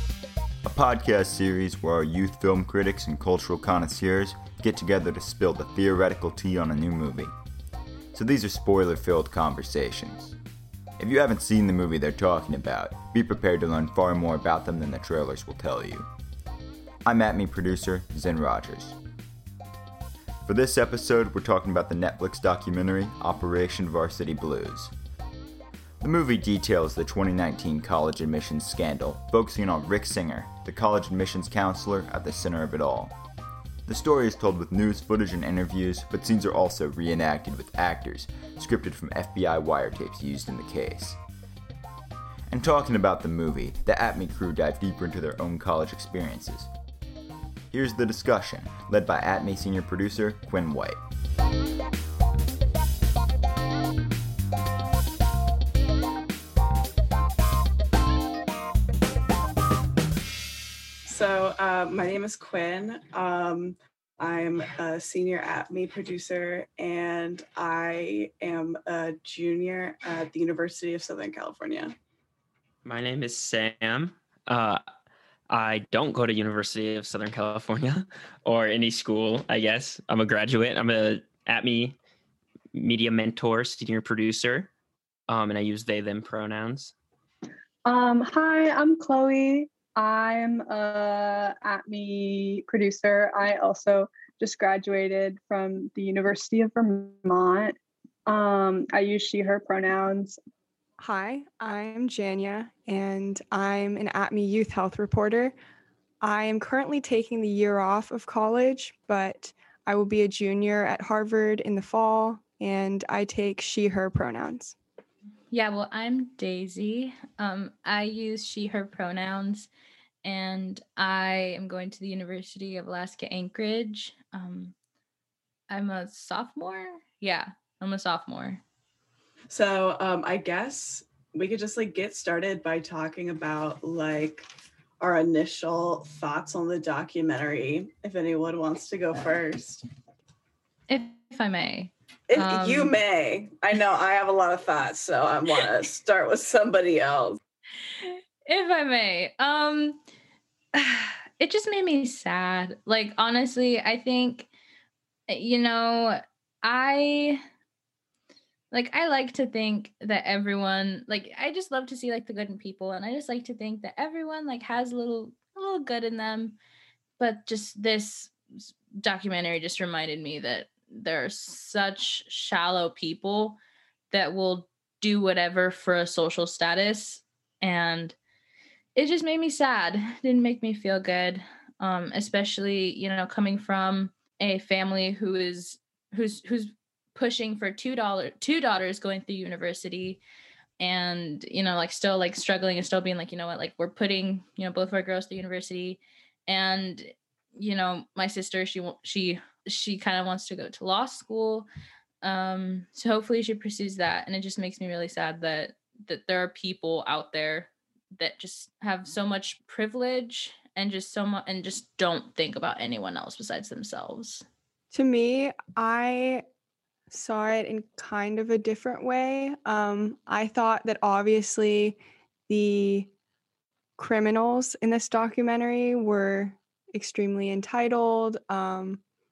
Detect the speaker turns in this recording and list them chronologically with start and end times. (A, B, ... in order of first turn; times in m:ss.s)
0:00.6-0:07.3 A
0:08.1-0:10.4 A
0:11.0-0:16.1 A
0:17.0-0:19.0 A
0:20.5-0:24.9 A
0:26.0-0:33.2 A
0:33.9-0:41.2 A
0:42.5-0:46.7 A
0:47.7-0:51.0 A
1:01.1-1:12.0 B
1:12.8-1:14.8 C
1:15.5-1:22.0 C
1:22.7-1:24.7 C
1:25.3-1:26.9 C
1:27.8-1:37.8 D
1:38.3-1:40.4 D
1:41.0-1:45.6 E
1:46.2-1:54.8 E
1:55.5-1:59.7 F
2:00.2-2:04.8 F
2:05.7-2:08.6 F
2:09.5-2:14.5 B
2:15.0-2:19.8 B
2:20.9-2:23.0 F
2:22.3-2:27.4 B
2:28.0-2:30.0 F
2:30.8-2:34.5 F
2:35.3-2:37.4 F
2:38.7-2:46.6 F
2:47.2-2:48.3 F
2:49.0-2:53.6 F
2:54.1-2:58.2 F
2:59.0-3:10.2 F
3:10.8-3:21.7 F
3:22.2-3:34.4 F
3:34.9-3:36.4 E
3:37.1-3:42.0 E
3:42.5-3:43.1 E
3:44.0-3:49.0 E